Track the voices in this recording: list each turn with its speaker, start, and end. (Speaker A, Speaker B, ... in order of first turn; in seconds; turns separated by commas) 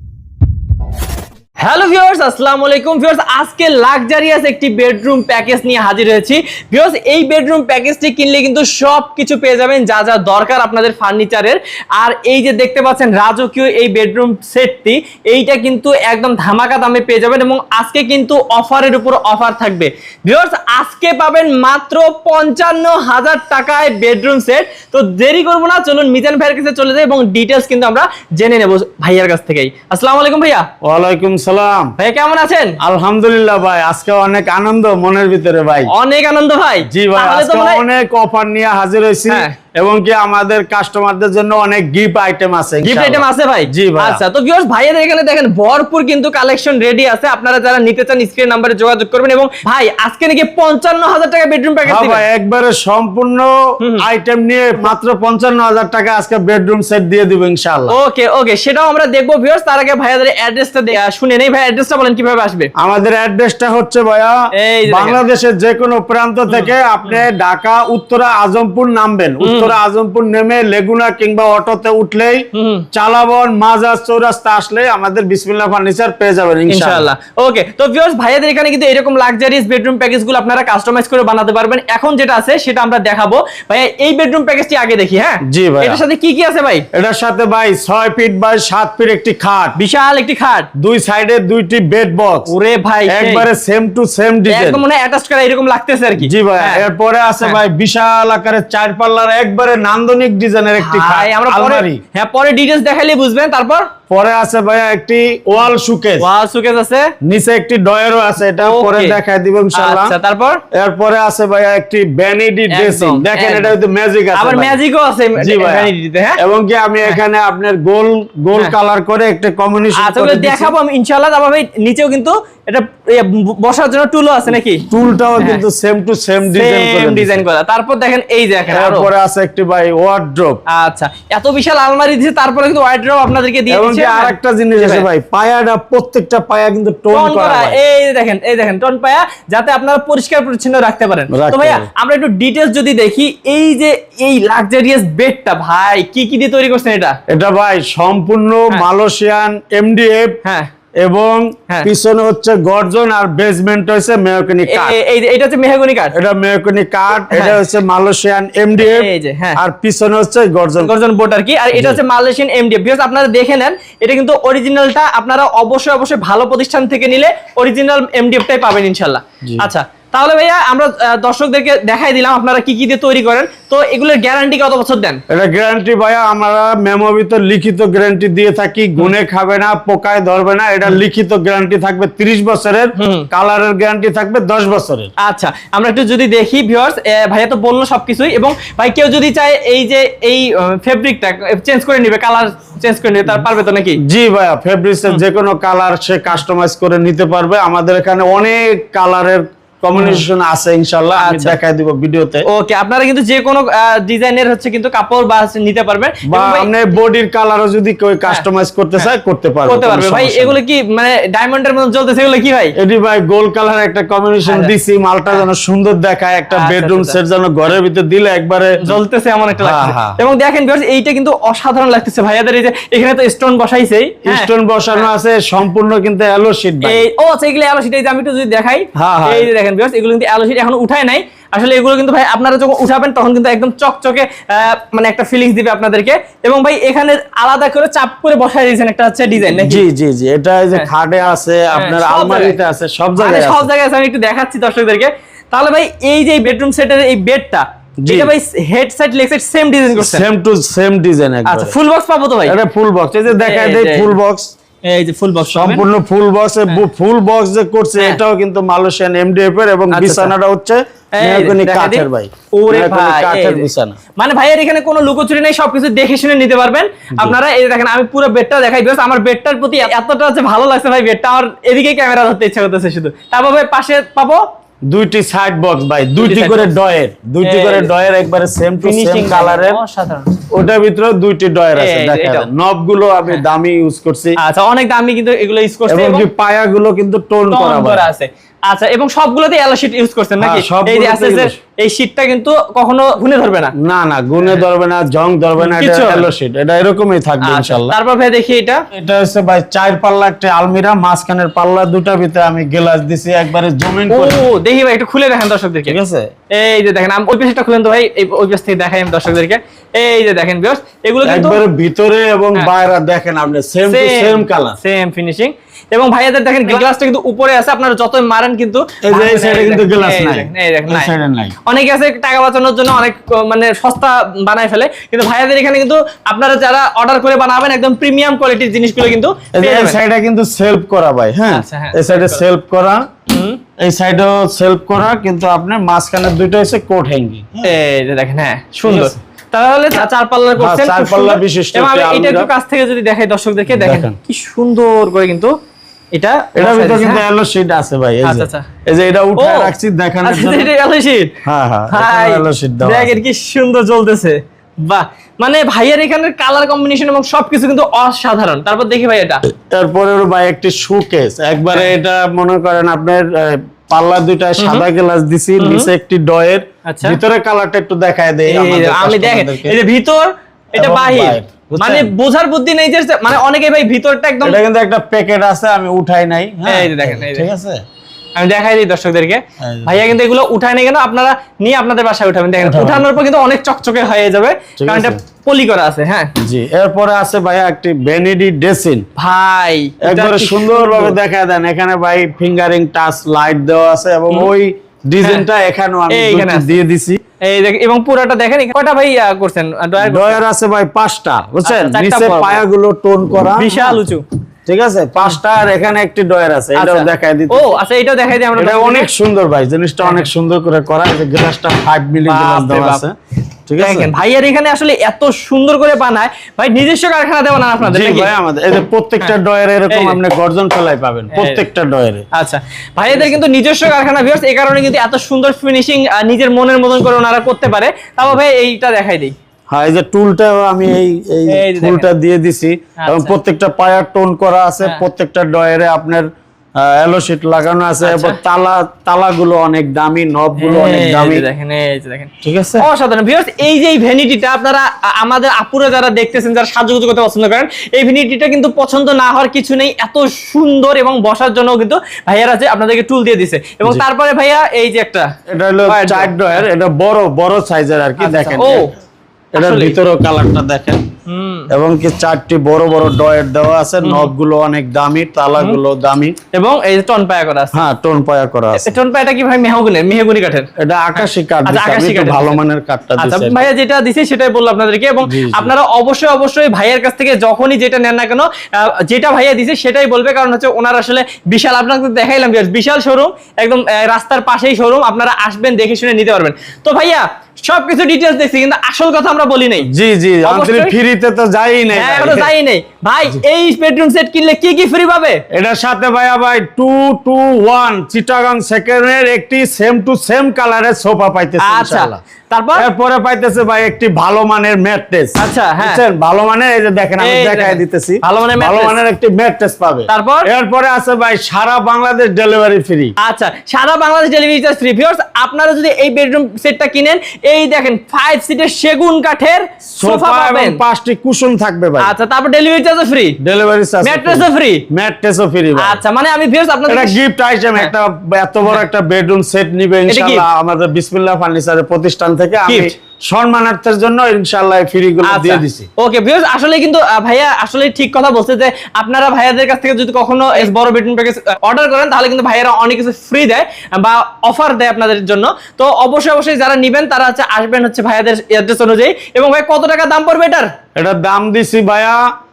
Speaker A: 1.6-30.7, Speaker B: 30.8-31.9, Speaker A: 32.0-32.8, Speaker B: 32.8-35.9, Speaker A: 35.9-37.8, Speaker B: 36.9-44.2, Speaker A: 39.3-39.5, Speaker A: 42.8-52.2, Speaker B: 51.9-58.0, Speaker A: 57.9-62.7, Speaker B: 62.8-64.4, Speaker A: 64.6-65.2, Speaker B: 64.9-77.1, Speaker A: 66.5-67.2, Speaker A: 69.4-69.7, Speaker A: 72.5-72.9, Speaker A: 76.7-86.9, Speaker B: 85.5-86.0, Speaker B: 86.9-89.8, Speaker A: 89.8-90.7, Speaker B: 90.8-92.5, Speaker A: 92.5-93.5, Speaker B: 93.1-94.8, Speaker A: 94.5-96.8, Speaker B: 96.2-102.0, Speaker A: 100.8-103.9, Speaker B: 104.1-106.3, Speaker A: 106.2-107.1, Speaker B: 107.2-110.1, Speaker A: 108.6-109.2, Speaker A: 109.7-110.6, Speaker B: 110.7-114.8, Speaker A: 112.7-113.7, Speaker A: 114.4-116.4, Speaker B: 115.4-120.8, Speaker A: 120.0-124.9, Speaker B: 124.9-127.4, Speaker A: 126.5-129.1, Speaker B: 128.7-130.6, Speaker A: 130.7-135.1, Speaker B: 133.7-137.8, Speaker A: 137.1-147.2, Speaker B: 141.3-141.9, Speaker B: 147.3-150.4, Speaker A: 150.4-150.7, Speaker B: 151.0-155.0, Speaker A: 154.7-156.1, Speaker B: 156.1-160.9, Speaker A: 157.3-157.6, Speaker A: 158.8-159.6, Speaker A: 160.8-175.2, Speaker B: 161.7-162.0, Speaker B: 169.4-169.7, Speaker B: 175.3-185.1, Speaker A: 183.0-183.3, Speaker A: 185.2-194.0, Speaker B: 194.0-202.5, Speaker A: 200.0-200.2, Speaker A: 201.2-201.6, Speaker A: 202.5-206.7, Speaker B: 206.3-210.6, Speaker A: 209.7-212.8, Speaker B: 212.8-219.0, Speaker A: 214.5-214.7, Speaker A: 216.5-217.2, Speaker A: 218.8-225.1, Speaker B: 219.6-220.2, Speaker B: 224.2-227.1, Speaker A: 226.8-239.8, Speaker B: 229.0-229.5, Speaker B: 239.5-243.7, Speaker A: 241.7-242.6, Speaker A: 243.2-250.3, Speaker B: 248.0-248.3, Speaker B: 250.0-251.8, Speaker A: 251.5-252.6, Speaker B: 252.5-254.5, Speaker A: 253.4-254.1, Speaker A: 254.8-255.8, Speaker B: 255.5-264.0, Speaker A: 259.9-260.3, Speaker A: 261.1-263.7, Speaker A: 264.2-274.4, Speaker B: 274.9-279.8, Speaker A: 276.2-276.7, Speaker A: 277.4-277.9, Speaker A: 278.8-280.4, Speaker B: 280.5-284.4, Speaker A: 281.8-282.5, Speaker A: 284.4-286.3, Speaker B: 285.9-288.1, Speaker A: 287.5-293.7, Speaker B: 290.4-291.6, Speaker B: 293.8-298.0, Speaker A: 295.6-296.3, Speaker A: 297.4-298.9, Speaker B: 298.9-304.4, Speaker A: 304.1-306.0, Speaker B: 305.9-306.3, Speaker A: 306.5-311.6, Speaker B: 311.2-314.8, Speaker A: 313.9-321.1, Speaker B: 319.1-321.6, Speaker A: 321.6-330.0, Speaker B: 329.5-333.1, Speaker A: 331.5-332.4, Speaker A: 333.3-333.6, Speaker B: 333.8-337.8, Speaker A: 337.6-345.6, Speaker B: 338.8-339.2, Speaker B: 340.6-342.5, Speaker B: 343.7-344.2, Speaker A: 346.1-347.2, Speaker B: 346.6-350.7, Speaker A: 348.2-348.7, Speaker A: 349.4-349.7, Speaker A: 350.2-351.4, Speaker B: 351.4-353.2, Speaker A: 351.9-359.4, Speaker B: 359.5-369.8, Speaker A: 364.6-364.9, Speaker A: 365.6-365.9, Speaker A: 366.9-367.2, Speaker A: 368.5-374.6, Speaker B: 370.8-372.1, Speaker B: 374.4-377.8, Speaker A: 376.7-377.5, Speaker A: 378.4-386.3, Speaker B: 379.6-380.1, Speaker B: 382.6-383.1, Speaker B: 384.8-385.2, Speaker B: 386.4-389.0, Speaker A: 389.2-391.1, Speaker B: 390.0-397.2, Speaker A: 395.2-395.5, Speaker A: 396.1-396.8, Speaker A: 397.4-400.4, Speaker B: 400.0-404.0, Speaker A: 401.6-402.6, Speaker A: 403.6-404.2, Speaker B: 404.7-407.7, Speaker A: 406.8-409.1, Speaker B: 408.6-413.1, Speaker A: 410.0-410.3, Speaker A: 412.3-413.1, Speaker B: 413.7-414.1, Speaker A: 413.8-418.3, Speaker B: 417.8-422.2, Speaker A: 419.9-420.2, Speaker A: 421.3-421.6, Speaker A: 422.3-429.3, Speaker B: 423.1-423.4, Speaker B: 429.7-436.3, Speaker A: 431.5-432.1, Speaker A: 433.0-433.4, Speaker B: 436.8-441.5, Speaker A: 438.0-438.4, Speaker A: 440.6-455.3, Speaker B: 442.4-442.9, Speaker B: 455.5-458.9, Speaker A: 455.9-456.6, Speaker A: 458.2-458.9, Speaker B: 459.6-461.0, Speaker A: 459.6-460.0, Speaker A: 461.3-461.7, Speaker B: 461.7-466.4, Speaker A: 464.0-464.3, Speaker A: 466.5-467.8, Speaker B: 467.7-468.9, Speaker A: 468.8-472.6, Speaker B: 470.8-473.6, Speaker A: 473.2-489.9, Speaker B: 475.2-475.7, Speaker B: 489.9-492.5, Speaker A: 490.4-490.9, Speaker A: 491.9-495.4, Speaker B: 495.5-502.2, Speaker A: 501.6-502.9, Speaker B: 502.8-513.1, Speaker A: 505.4-506.0, Speaker A: 507.2-509.0, Speaker A: 510.1-510.5, Speaker A: 513.2-520.8, Speaker B: 519.9-522.1, Speaker A: 522.0-523.4, Speaker B: 523.4-526.0, Speaker A: 524.0-524.8, Speaker A: 525.8-527.2, Speaker B: 526.9-535.9, Speaker A: 530.1-530.5, Speaker A: 532.7-532.9, Speaker A: 535.3-550.7, Speaker B: 551.0-552.2